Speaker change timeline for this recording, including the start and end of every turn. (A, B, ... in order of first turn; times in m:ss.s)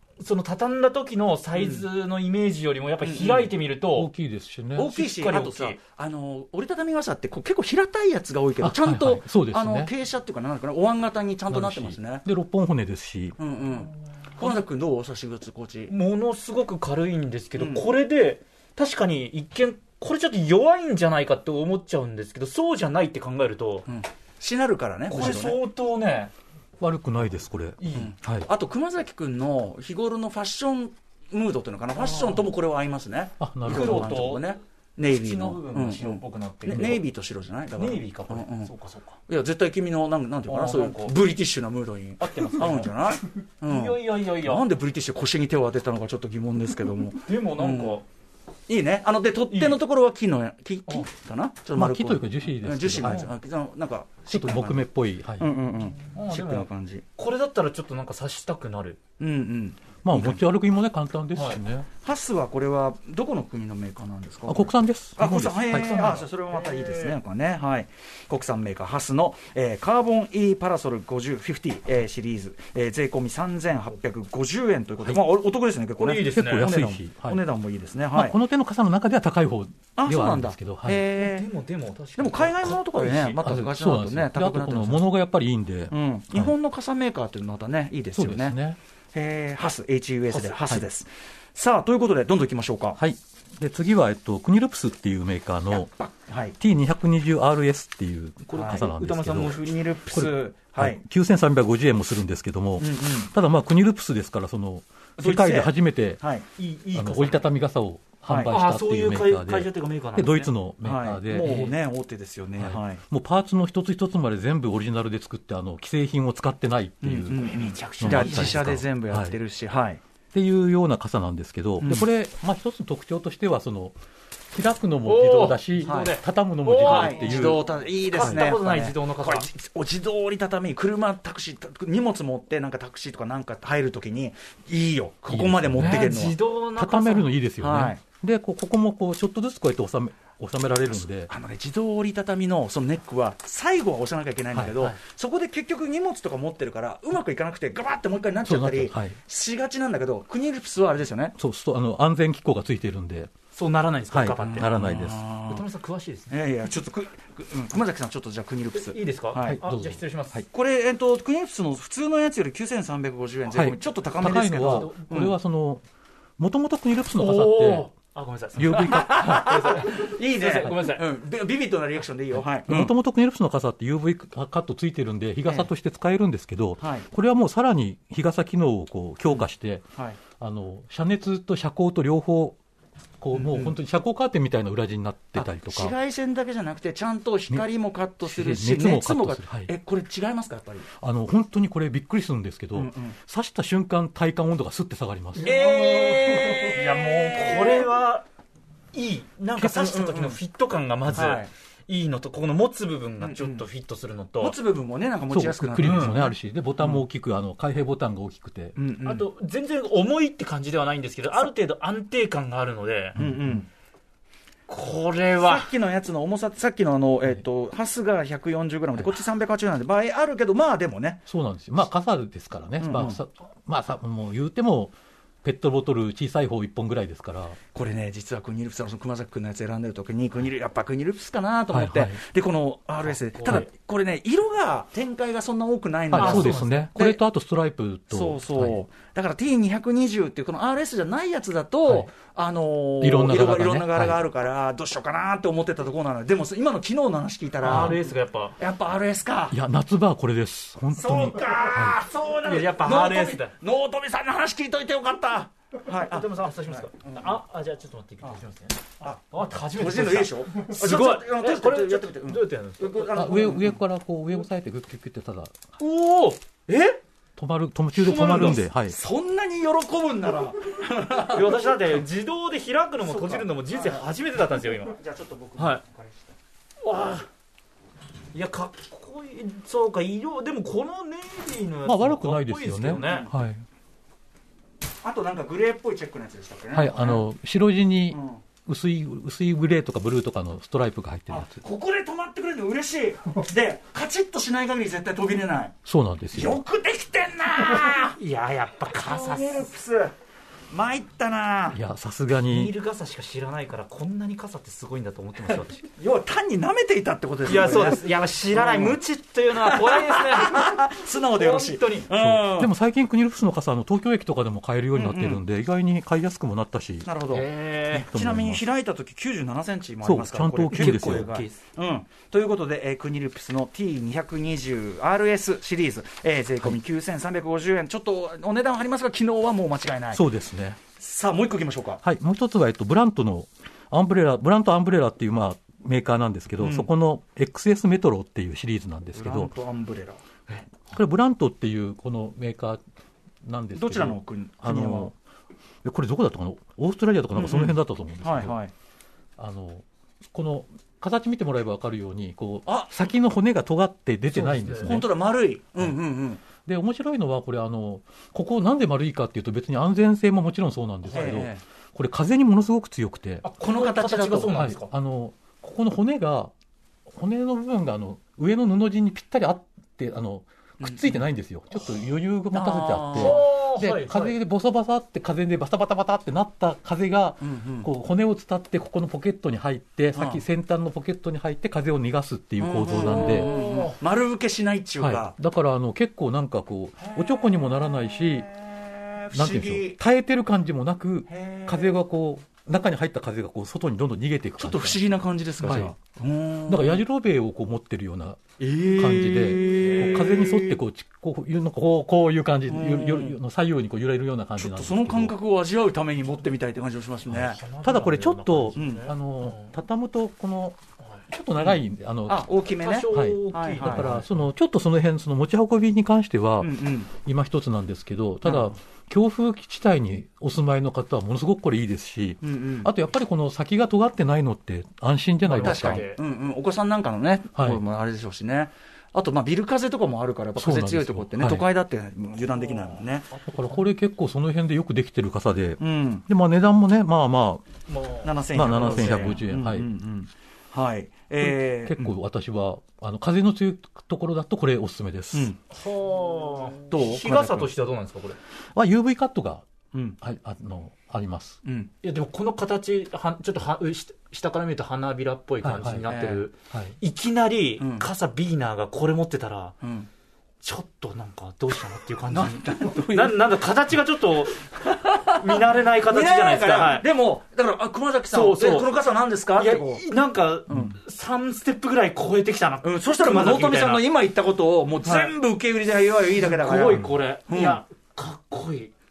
0:00.2-0:04.1 A
0:01.6-0:01.8 B
0:03.0-0:03.5 B
0:04.0-0:04.9 C
0:04.8-0:12.2 B
0:04.8-0:05.8 A
0:08.6-0:09.9 C
0:11.5-0:13.4 C
0:13.4-0:15.9 B
0:15.9-0:23.9 A
0:17.6-0:17.9 B
0:23.9-0:25.6 B
0:25.1-0:26.3 A
0:26.8-0:28.5 C
0:27.8-0:28.1 A
0:27.9-0:38.7 B
0:32.0-0:32.5 A
0:33.4-0:34.2 C
0:33.7-0:37.0 A
0:37.8-0:39.2 A
0:39.3-0:48.0 B
0:40.5-0:41.2 A
0:42.2-0:42.9 A
0:43.7-0:44.7 A
0:47.2-0:48.0 A
0:48.7-0:54.9 B
0:49.5-0:49.8 A
0:51.8-0:53.3 C
0:53.0-0:53.3 A
0:54.3-0:55.5 C
0:55.4-0:57.0 B
0:56.1-0:59.0 A
0:59.2-1:00.4 B
1:00.0-1:01.9 C
1:02.0-1:18.4 B
1:04.5-1:06.0 C
1:05.7-1:07.2 A
1:16.0-1:16.7 A
1:16.3-1:17.4 C
1:18.1-1:21.0 C
1:20.0-1:21.5 B
1:21.2-1:23.4 A
1:22.2-1:25.1 B
1:23.4-1:26.5 C
1:25.9-1:28.6 B
1:28.2-1:28.8 C
1:29.1-1:33.0 B
1:33.0-1:35.9 C
1:35.7-1:36.6 B
1:36.6-1:39.6 C
1:38.4-1:39.6 A
1:38.6-1:41.0 B
1:40.1-1:46.2 C
1:42.8-1:43.3 B
1:45.2-1:46.4 B
1:46.6-1:47.4 A
1:46.9-1:51.7 C
1:48.3-1:48.5 B
1:48.5-1:50.5 A
1:50.8-1:53.0 B
1:51.3-1:51.7 A
1:52.6-1:57.4 C
1:57.0-2:00.0 B
1:57.4-1:58.7 A
1:58.0-1:59.4 C
2:00.3-2:04.0 C
2:01.8-2:02.1 B
2:04.5-2:07.6 C
2:05.0-2:09.4 A
2:05.8-2:06.1 B
2:06.8-2:16.4 B
2:08.2-2:08.5 C
2:15.3-2:16.1 C
2:15.8-2:17.3 A
2:16.8-2:21.3 C
2:17.6-2:18.0 B
2:21.2-2:31.3 B
2:28.4-2:29.2 C
2:31.4-2:33.3 C
2:33.6-2:34.7 A
2:34.1-2:35.2 C
2:34.4-2:35.6 B
2:35.5-2:36.3 A
2:36.3-2:39.6 B
2:38.7-2:40.4 A
2:39.5-2:40.5 C
2:40.5-2:45.4 B
2:43.5-2:45.8 C
2:44.6-2:45.1 A
2:46.4-2:47.9 C
2:47.1-2:51.0 A
2:48.6-2:49.5 C
2:48.7-2:52.9 B
2:52.6-3:02.6 C
2:56.8-2:57.1 B
3:03.2-3:05.9 C
3:03.3-3:03.8 B
3:05.4-3:10.9 B
3:08.2-3:09.7 C
3:11.0-3:15.6 C
3:12.8-3:13.2 B
3:15.4-3:17.9 B
3:15.4-3:18.2 A
3:18.9-3:24.6 A
3:19.6-3:20.4 B
3:21.1-3:21.5 B
3:23.2-3:23.6 B
3:24.4-3:27.0 B
3:25.3-3:28.8 C
3:25.8-3:26.2 A
3:28.8-3:29.3 B
3:29.0-3:33.2 A
3:33.2-3:33.7 B
3:34.7-3:35.7 A
3:35.4-3:41.2 B
3:41.3-3:47.6 C
3:42.8-3:43.2 B
3:47.7-3:57.2 B
3:51.7-3:52.2 C
3:53.3-3:53.7 A
3:56.1-3:58.8 C
3:56.1-3:56.9 A
3:58.1-4:09.6 B
4:03.0-4:04.2 C
4:07.6-4:08.6 A
4:07.7-4:08.0 C
4:09.5-4:12.0 C
4:11.0-4:17.3 B
4:12.4-4:13.5 A
4:15.9-4:23.1 A
4:19.7-4:23.8 B
4:23.1-4:25.6 C
4:25.8-4:27.0 A
4:27.4-4:29.0 C
4:28.0-4:31.7 B
4:28.3-4:28.5 A
4:31.2-4:35.0 A
4:33.0-4:34.1 B
4:34.8-4:36.3 B
4:36.8-4:37.3 A
4:38.3-4:43.3 A
4:41.8-4:43.6 C
4:43.0-4:43.3 B
4:45.0-4:47.2 B
4:46.7-4:51.6 C
4:48.1-4:48.4 B
4:51.3-4:55.8 B
4:55.8-4:56.6 C
4:56.3-4:58.2 B
4:58.2-4:59.7 A
4:59.0-5:00.1 B
5:00.7-5:01.8 B
5:01.7-5:02.7 C
5:02.4-5:05.9 A
5:06.0-5:09.0 B
5:07.5-5:10.8 A
5:09.6-5:12.7 B
5:11.4-5:12.1 A
5:12.2-5:17.1 C
5:15.0-5:15.4 B
5:17.0-5:30.2 B
5:17.3-5:18.1 A
5:18.0-5:18.7 C
5:20.0-5:21.4 C
5:20.7-5:21.6 A
5:30.1-5:30.8 C
5:31.0-5:32.0 B
5:32.0-5:39.5 C
5:36.6-5:36.9 B
5:39.2-5:40.2 B
5:40.9-5:42.8 C
5:43.4-5:45.2 C
5:43.8-5:45.1 B
5:45.8-5:48.6 C
5:47.4-5:48.7 B
5:49.4-5:55.1 C
5:52.7-5:52.9 B
5:54.3-5:55.0 A
5:54.8-5:56.4 B
5:56.6-6:03.4 C
6:01.1-6:01.6 B
6:03.4-6:04.9 A
6:03.6-6:04.5 B
6:04.5-6:06.5 C
6:07.1-6:23.5 C
6:10.8-6:11.2 B
6:12.5-6:13.4 B
6:13.2-6:14.4 A
6:17.4-6:17.9 B
6:20.1-6:20.4 B
6:22.6-6:25.3 B
6:23.0-6:24.0 A
6:25.0-6:28.5 C
6:27.0-6:30.0 B
6:29.3-6:35.0 C
6:31.3-6:32.0 B
6:34.6-6:37.0 B
6:35.6-6:36.0 C
6:36.7-6:45.3 C
6:38.6-6:40.8 B
6:39.6-6:40.4 A
6:42.7-6:43.4 B
6:44.6-6:47.6 B
6:47.3-6:52.5 C
6:47.3-6:49.7 A
6:48.8-6:49.1 B
6:52.3-6:54.1 B
6:52.8-6:54.3 A
6:53.1-7:06.0 C
6:56.6-6:57.1 B
6:58.4-6:58.7 B
7:02.4-7:02.9 B
7:05.4-7:06.2 A
7:05.6-7:13.3 B
7:10.6-7:11.6 C
7:12.5-7:13.9 A
7:13.5-7:17.8 C
7:15.8-7:16.2 B
7:17.9-7:19.4 A
7:18.2-7:22.2 B
7:18.5-7:19.9 C
7:21.4-7:25.5 C
7:25.7-7:28.4 A
7:26.9-7:27.7 B
7:28.7-7:29.6 C
7:29.9-7:30.2 B
7:30.2-7:31.6 C
7:31.6-7:31.9 B
7:32.0-7:39.8 A
7:35.6-7:36.1 C
7:36.1-7:36.5 B
7:36.7-7:37.0 C
7:37.8-7:38.1 B
7:39.8-7:40.1 B
7:40.6-7:47.1 A
7:42.3-7:43.4 B
7:45.1-7:50.0 B
7:48.3-7:49.0 A
7:49.6-7:54.0 A
7:50.7-7:51.0 B
7:52.8-7:57.8 B
7:55.0-7:55.3 A
7:56.4-7:58.9 A